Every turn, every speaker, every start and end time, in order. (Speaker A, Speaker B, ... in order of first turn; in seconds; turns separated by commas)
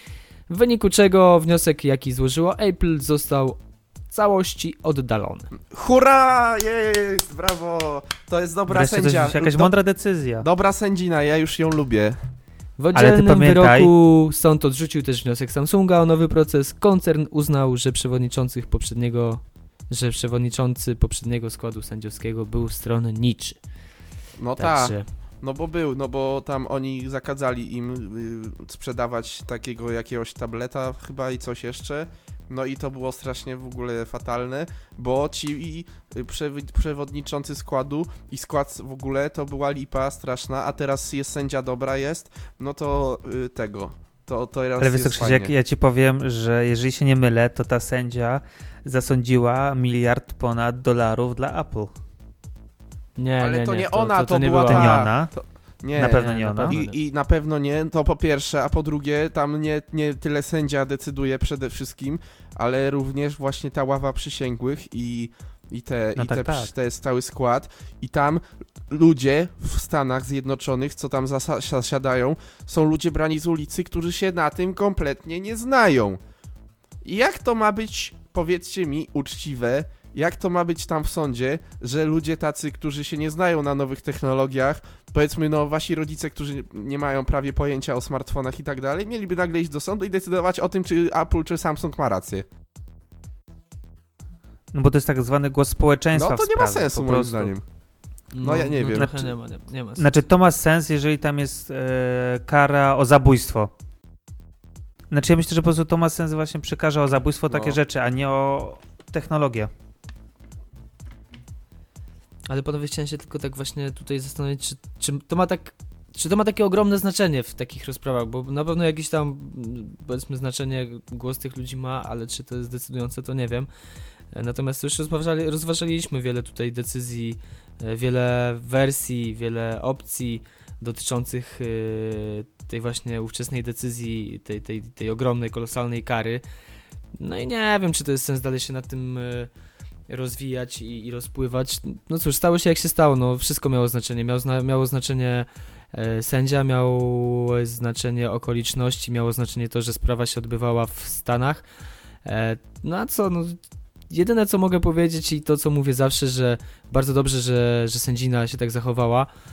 Speaker A: 0.5-5.5, Speaker B: 5.7-9.7, Speaker C: 8.7-10.4, Speaker B: 10.4-12.2, Speaker A: 12.8-23.6, Speaker C: 12.9-13.9, Speaker B: 24.4-45.5, Speaker A: 24.6-25.1, Speaker C: 44.8-51.9, Speaker A: 53.2-55.1, Speaker B: 53.4-76.2, Speaker C: 54.6-55.3, Speaker C: 55.9-56.8, Speaker A: 56.0-57.0, Speaker C: 66.2-66.7, Speaker B: 77.0-92.5, Speaker C: 94.7-97.5, Speaker B: 96.1-97.6, Speaker A: 98.3-100.0, Speaker B: 98.4-99.3, Speaker C: 100.0-103.7, Speaker C: 105.1-109.7, Speaker B: 107.5-107.8, Speaker A: 112.5-123.7, Speaker A: 124.3-136.4, Speaker A: 137.1-139.5, Speaker A: 140.1-151.6, Speaker A: 152.2-159.3